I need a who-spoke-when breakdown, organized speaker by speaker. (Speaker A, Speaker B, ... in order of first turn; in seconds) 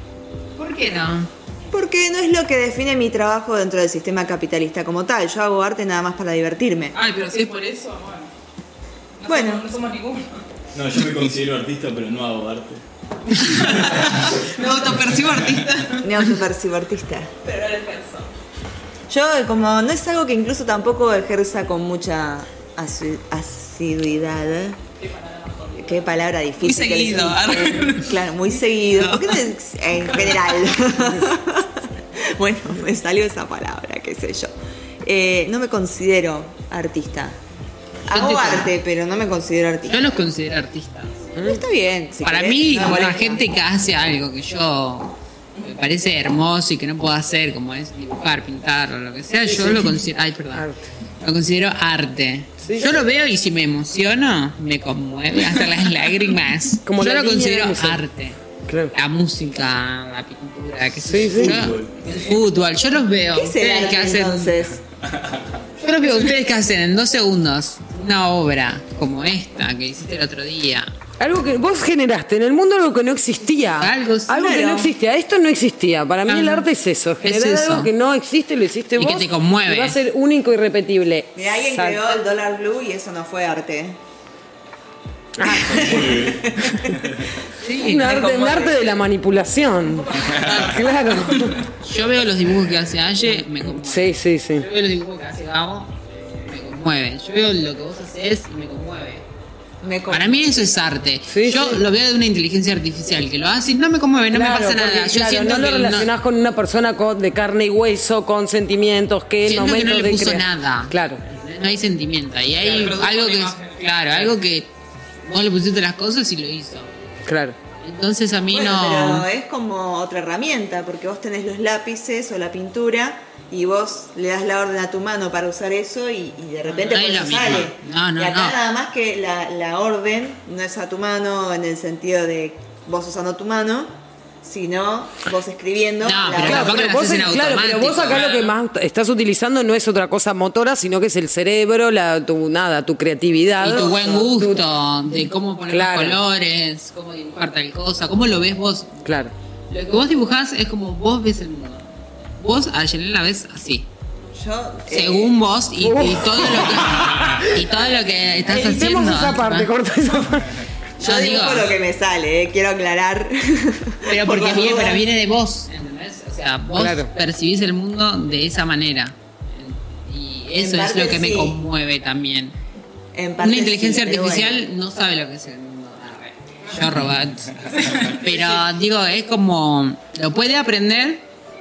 Speaker A: 0.6-1.3, 38.1-38.7, 39.9-41.3, 42.2-50.7, 51.2-58.4, 58.9-64.6, 65.8-70.9, 73.8-74.4, 76.3-76.7, 77.2-77.9, 79.0-80.0, 87.6-88.2, 91.8-99.2, 100.1-106.1, 109.5-114.7, 115.2-116.9, 117.8-119.3, 126.7-128.6, 136.0-138.5, 143.6-149.1, 149.7-151.8, 152.4-153.9, 154.9-159.7, 161.0-161.8, 164.1-172.6, 173.4-181.2
Speaker B: 1.7-7.0, 9.3-9.7, 16.0-17.3, 19.1-24.8, 25.8-34.5, 35.0-37.4, 38.1-40.2, 41.4-43.5, 63.3-64.8, 74.3-74.9, 81.4-84.0, 85.5-86.9, 87.9-88.9, 99.8-100.7, 118.5-133.9, 134.4-137.1, 154.3-155.4, 161.0-165.1, 170.6-171.6, 173.1-174.7
Speaker C: 7.0-8.3, 9.2-10.4, 13.4-16.1, 17.4-18.3, 25.0-26.1, 26.6-28.2, 28.9-29.4, 90.1-90.7, 112.6-114.2, 177.7-178.6
Speaker D: 10.7-12.8, 13.5-14.0, 61.4-61.9, 85.4-87.2
Speaker E: 41.4-41.6, 49.4-50.0, 52.6-53.0, 56.9-58.0, 58.7-58.9, 61.0-61.7, 71.2-82.1, 85.4-86.2, 87.8-91.6, 93.5-94.7, 101.3-101.8, 104.3-111.2, 117.3-117.6, 136.3-144.6, 145.7-146.2, 149.1-149.3, 155.8-157.6, 158.5-160.6, 166.8-167.1